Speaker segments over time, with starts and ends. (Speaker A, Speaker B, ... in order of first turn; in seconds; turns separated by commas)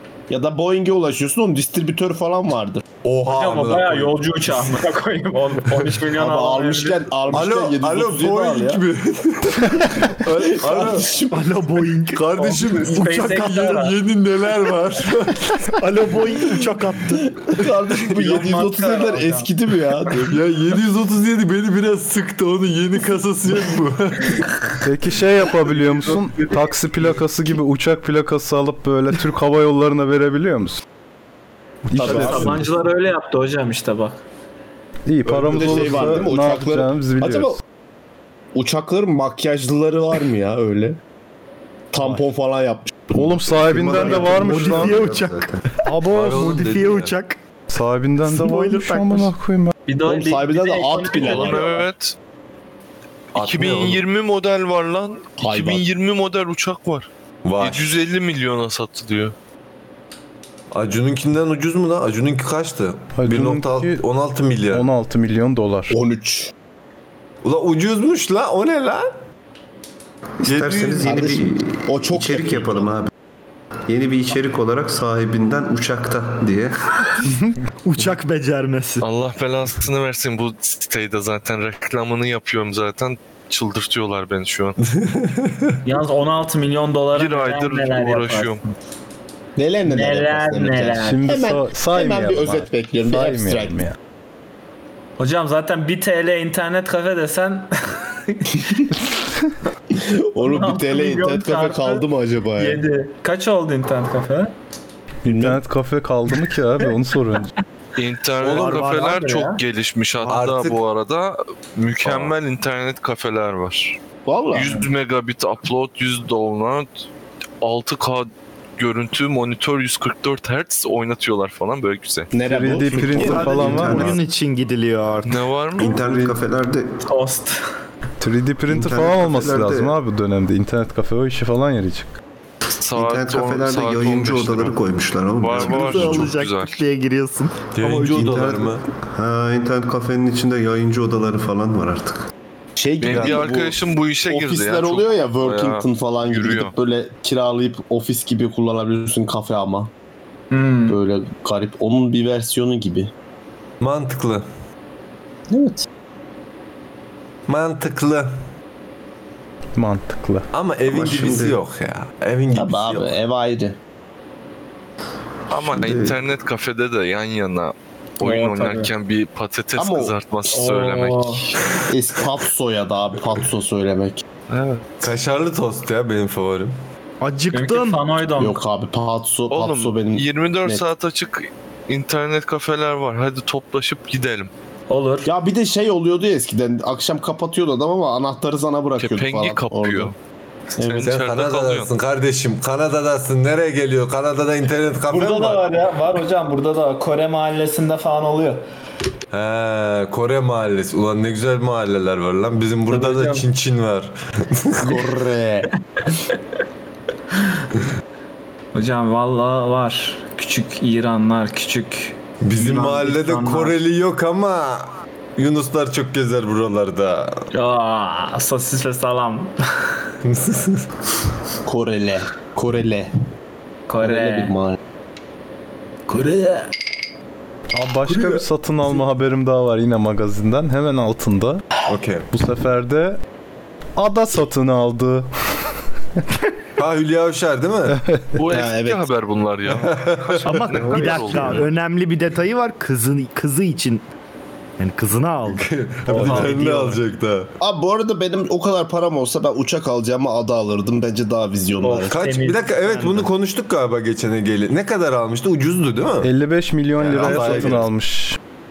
Speaker A: 0.3-2.8, Speaker B: 3.0-4.7, Speaker C: 3.3-7.4, Speaker A: 6.1-8.8, Speaker B: 7.3-11.1, Speaker A: 10.3-11.6, Speaker D: 11.3-13.8, Speaker B: 12.1-15.8, Speaker C: 12.9-13.9, Speaker D: 15.8-17.3, Speaker A: 17.3-20.4, Speaker C: 18.1-19.5, Speaker B: 20.2-24.8, Speaker E: 24.8-30.8, Speaker E: 31.9-32.6, Speaker A: 31.9-32.6, Speaker C: 32.0-34.2, Speaker E: 35.1-37.6, Speaker A: 35.4-37.6, Speaker B: 35.5-36.2, Speaker A: 38.5-41.0, Speaker A: 41.9-43.1, Speaker E: 43.1-45.0, Speaker F: 43.5-45.6, Speaker D: 43.9-45.5, Speaker E: 45.9-46.8, Speaker B: 46.1-47.1, Speaker D: 46.6-47.4, Speaker E: 47.7-49.7, Speaker D: 48.3-49.3, Speaker C: 49.9-51.8, Speaker A: 50.0-51.8, Speaker G: 51.2-52.1, Speaker G: 53.4-57.1, Speaker B: 53.4-54.0, Speaker A: 55.4-55.9, Speaker B: 57.5-57.9, Speaker G: 57.6-59.4, Speaker B: 60.7-64.8, Speaker E: 63.2-64.0, Speaker E: 64.7-66.0, Speaker A: 65.9-66.5, Speaker B: 67.4-69.1, Speaker F: 70.4-73.1, Speaker B: 70.5-71.1, Speaker A: 71.0-72.9, Speaker F: 73.9-77.3, Speaker D: 77.8-79.0, Speaker G: 79.0-84.8, Speaker B: 84.8-85.8, Speaker C: 85.8-88.5, Speaker G: 87.2-88.7, Speaker A: 89.6-93.9, Speaker C: 89.9-91.3, Speaker E: 91.0-94.0, Speaker C: 95.2-98.9, Speaker A: 100.0-102.8, Speaker C: 100.4-102.1, Speaker C: 102.6-104.5, Speaker E: 105.2-107.5, Speaker A: 105.2-105.6, Speaker G: 108.0-114.0, Speaker D: 108.4-109.3, Speaker C: 108.5-109.6, Speaker B: 110.2-110.8, Speaker B: 112.0-112.3, Speaker A: 114.2-114.7, Speaker G: 114.5-117.1, Speaker G: 117.6-122.3, Speaker A: 122.3-123.9, Speaker E: 122.5-124.2, Speaker D: 123.1-125.4, Speaker F: 123.2-124.2, Speaker G: 125.2-126.0, Speaker F: 125.8-127.0, Speaker E: 126.0-126.4, Speaker C: 127.1-127.6, Speaker E: 128.2-132.2, Speaker F: 128.7-130.0, Speaker G: 132.8-134.8, Speaker F: 132.9-136.3, Speaker G: 135.4-136.8, Speaker D: 135.6-137.7, Speaker B: 137.7-138.8, Speaker F: 137.8-142.3, Speaker A: 142.8-149.9, Speaker G: 143.0-146.7, Speaker C: 150.5-151.0, Speaker A: 150.9-153.1, Speaker B: 153.8-154.5, Speaker A: 155.5-155.8, Speaker B: 157.5-158.3, Speaker E: 159.8-160.5, Speaker B: 160.5-163.2, Speaker F: 160.9-161.6, Speaker A: 162.5-163.8, Speaker G: 165.5-171.5, Speaker F: 165.6-166.2, Speaker C: 168.2-168.9, Speaker A: 169.8-170.6, Speaker C: 170.5-171.4, Speaker A: 171.9-174.2, Speaker G: 174.5-174.9, Speaker B: 175.0-176.8, Speaker D: 177.2-178.0, Speaker C: 177.5-178.6, Speaker A: 178.4-180.8, Speaker G: 179.5-184.5, Speaker C: 184.9-185.3, Speaker A: 185.2-190.1, Speaker G: 189.0-190.2, Speaker A: 190.8-191.1, Speaker G: 190.8-191.9, Speaker B: 191.0-195.7, Speaker C: 195.1-198.6, Speaker B: 199.3-205.1, Speaker C: 202.9-203.5, Speaker A: 204.8-205.7, Speaker C: 208.7-213.8, Speaker B: 212.4-217.4, Speaker C: 217.5-219.5, Speaker B: 220.2-220.9, Speaker A: 221.7-223.1, Speaker C: 223.9-224.5, Speaker A: 224.0-224.8, Speaker C: 226.1-226.7, Speaker E: 227.7-231.7, Speaker B: 228.1-228.4, Speaker B: 231.9-232.3, Speaker E: 232.3-233.2, Speaker E: 234.0-235.3, Speaker B: 236.8-238.0, Speaker E: 237.9-238.2, Speaker G: 238.4-241.7, Speaker A: 238.5-239.0, Speaker B: 239.7-241.0, Speaker D: 240.4-244.0, Speaker D: 244.8-245.7, Speaker B: 245.5-247.5, Speaker C: 246.1-246.6, Speaker D: 246.3-246.9, Speaker A: 247.6-252.2, Speaker C: 251.8-252.8, Speaker B: 252.1-256.3, Speaker D: 252.9-253.2, Speaker E: 256.2-258.4, Speaker B: 257.0-257.9, Speaker A: 257.2-257.8